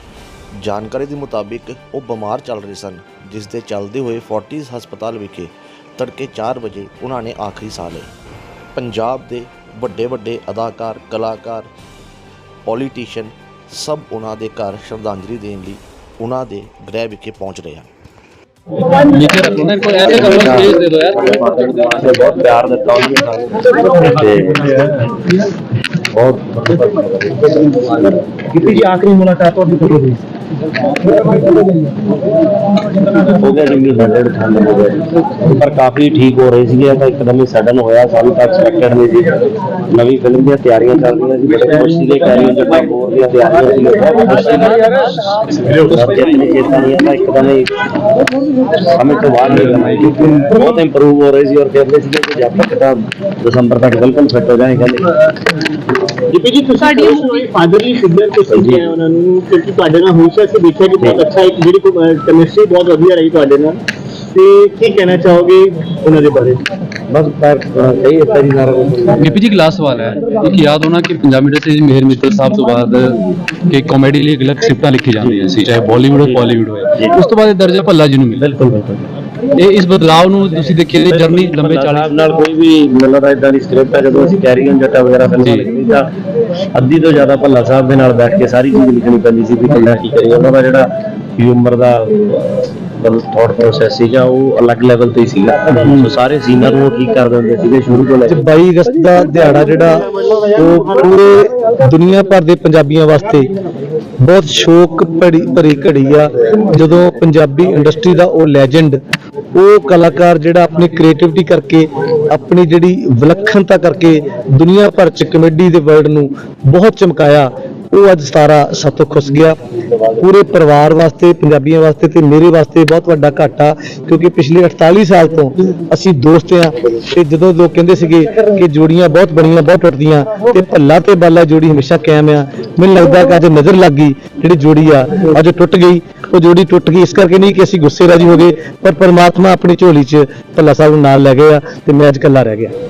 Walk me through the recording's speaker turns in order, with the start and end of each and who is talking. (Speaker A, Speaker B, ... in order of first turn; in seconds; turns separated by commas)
Speaker A: 0.6-8.1, Speaker A: 8.8-11.7, Speaker A: 12.7-17.9, Speaker B: 19.1-21.9, Speaker C: 20.0-24.8, Speaker C: 26.1-27.5, Speaker D: 28.6-30.1, Speaker C: 33.4-39.4, Speaker C: 39.9-44.9, Speaker C: 45.7-47.8, Speaker C: 48.9-55.1, Speaker D: 56.3-63.8, Speaker C: 58.5-58.9, Speaker D: 64.3-66.6, Speaker C: 67.1-69.4, Speaker B: 69.2-78.7, Speaker C: 75.2-77.1, Speaker C: 78.4-79.0, Speaker B: 79.6-82.2, Speaker C: 81.0-86.1, Speaker B: 85.4-85.7, Speaker C: 86.7-98.4, Speaker E: 98.2-103.5, Speaker E: 104.2-109.0, Speaker E: 109.5-119.6, Speaker E: 120.2-142.7